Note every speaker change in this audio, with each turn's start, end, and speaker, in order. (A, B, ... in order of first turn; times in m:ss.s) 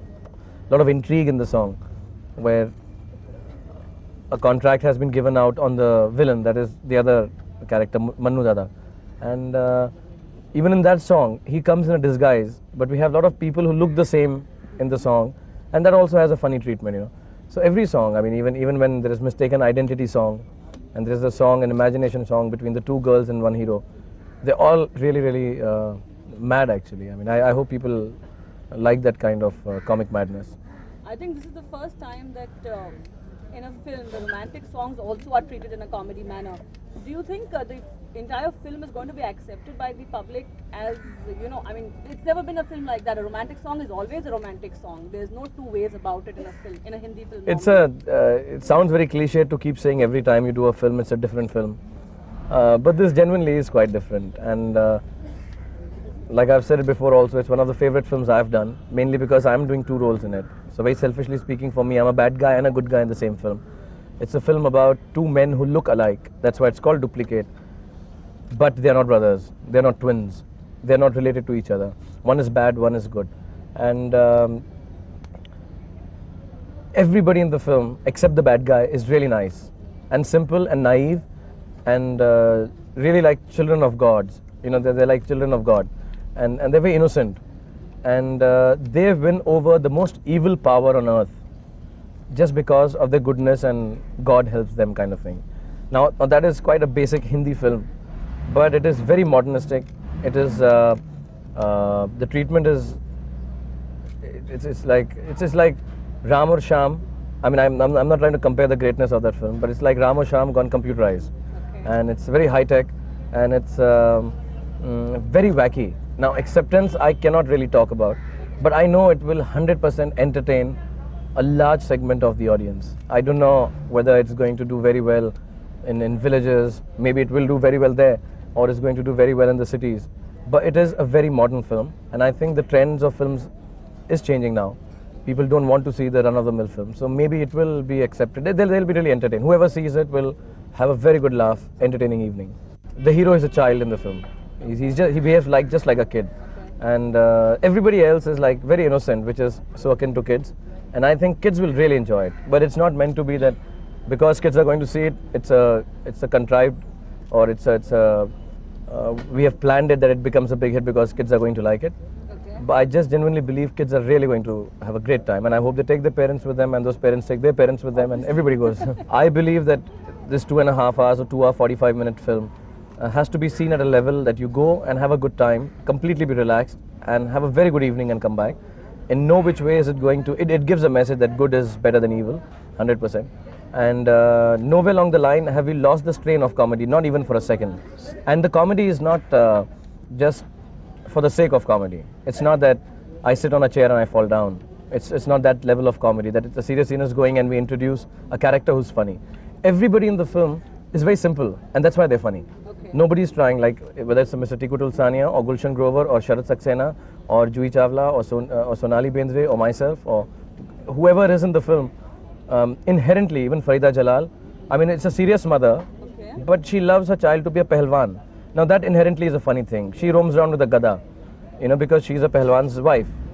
0:00.7-0:01.8 A
0:02.4-0:02.7 A
0:04.3-0:08.7 A
0:09.2-0:09.9 A
0:10.5-0:23.8 A
0:24.4-0:28.2 A
0:28.7-0:30.6 A
0:31.0-0:33.0 B
0:33.5-0:47.9 B
0:47.5-0:51.8 A
0:52.5-0:55.0 A
0:56.3-1:03.6 A
1:04.2-1:07.5 A
1:08.5-1:14.6 A
1:16.9-1:21.2 A
1:21.8-1:27.4 A
1:28.0-1:31.4 A
1:32.3-1:37.9 A
1:38.5-1:41.0 A
1:41.5-1:43.0 A
1:44.2-1:51.3 A
1:51.6-1:51.9 B
1:51.8-2:00.8 A
2:01.3-2:13.5 A
2:14.1-2:38.3 A
2:26.4-2:26.7 B
2:38.9-2:41.9 A
2:42.3-2:42.6 B
2:42.6-2:58.6 A
2:59.1-3:10.5 A
3:11.0-3:30.3 A
3:22.6-3:23.0 B
3:30.8-3:31.9 A
3:32.5-3:35.8 A
3:36.0-3:36.4 B
3:36.4-3:41.0 A
3:41.6-3:43.1 A